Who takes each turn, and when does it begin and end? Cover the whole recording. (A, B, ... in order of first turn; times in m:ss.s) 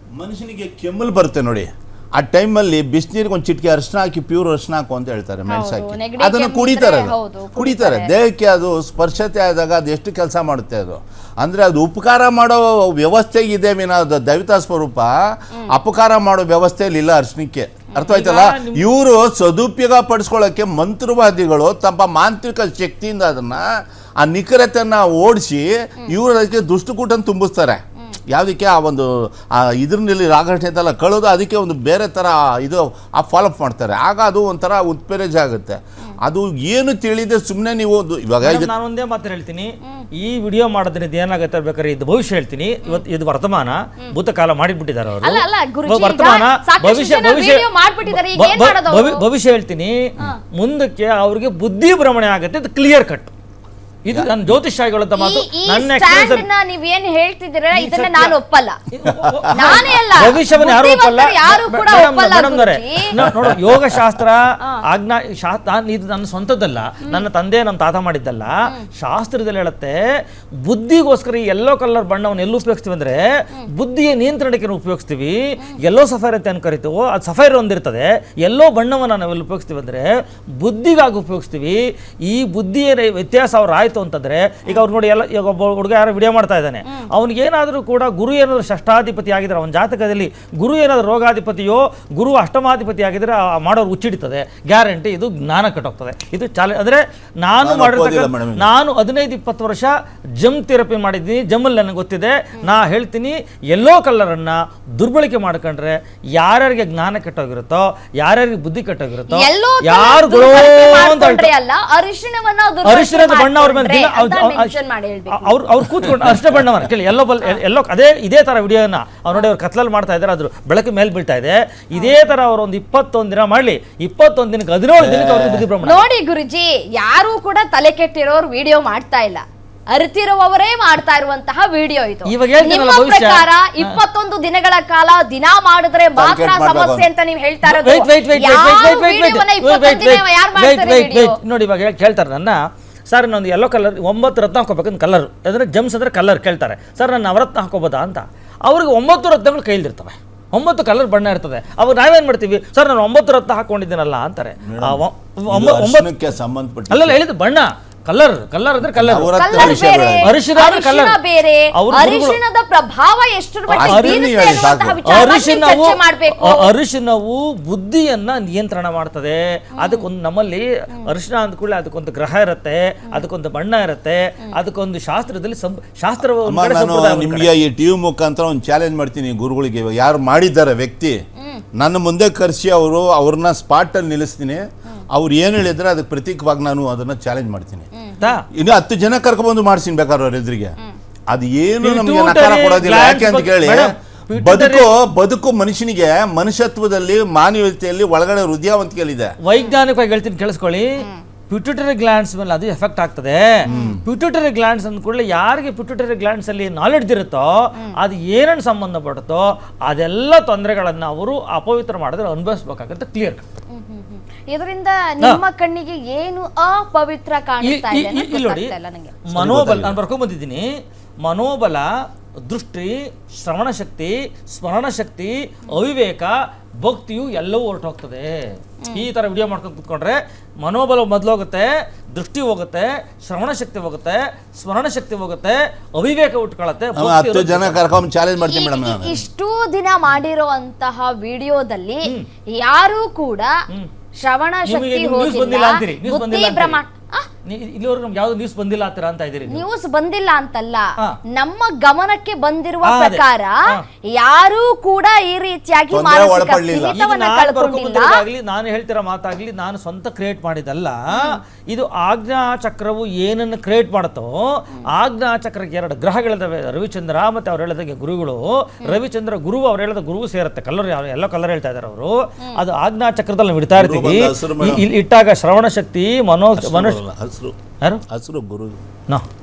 0:00.2-0:15.1 A
0:05.5-0:08.1 B
0:15.7-0:27.8 A
0:17.9-0:18.2 B
0:18.1-0:18.9 C
0:28.3-0:38.7 A
0:38.4-0:53.3 C
0:39.8-0:40.1 B
0:45.2-0:49.3 B
0:54.0-0:56.5 C
0:55.2-0:58.8 B
0:57.7-0:58.4 C
0:58.9-1:10.0 C
0:59.1-0:59.3 A
0:59.5-1:03.2 B
1:03.2-1:04.0 A
1:04.6-1:04.9 B
1:10.6-1:51.5 C
1:37.6-1:38.7 A
1:49.3-1:55.6 B
1:52.8-1:54.8 C
1:55.3-2:06.1 C
1:56.0-1:56.6 A
2:05.0-2:05.7 A
2:05.8-2:21.4 B
2:12.2-2:14.0 C
2:16.2-2:17.1 A
2:17.6-2:36.1 C
2:34.6-2:37.2 A
2:36.9-2:41.2 C
2:38.9-2:40.3 A
2:39.3-2:46.8 B
2:41.7-2:42.4 C
2:43.7-2:57.5 C
2:43.7-2:45.0 A
2:49.8-2:50.1 B
2:56.4-3:01.2 A
3:01.4-3:01.6 B
3:01.8-3:07.9 A
3:08.0-3:08.4 B
3:08.2-3:08.5 C
3:08.5-3:10.8 A
3:11.3-3:19.3 A
3:11.8-3:14.9 C
3:19.4-3:33.4 C
3:19.5-3:19.8 B
3:21.0-3:21.2 B
3:23.6-3:24.0 B
3:23.7-3:24.0 A
3:33.7-3:39.2 B
3:37.6-3:40.7 C
3:39.3-3:40.0 A
3:41.2-3:41.9 C
3:42.4-3:57.8 C
3:48.8-3:49.1 B
3:57.0-3:59.2 A
3:58.4-4:03.5 B
4:04.2-4:07.3 B
4:04.7-4:06.8 C
4:07.4-4:09.7 C
4:09.5-4:18.2 B
4:12.8-4:13.8 C
4:15.9-4:17.0 A
4:16.8-4:37.0 C
4:21.1-4:21.4 B
4:33.7-4:34.9 A
4:36.6-4:37.6 A
4:38.1-4:38.8 A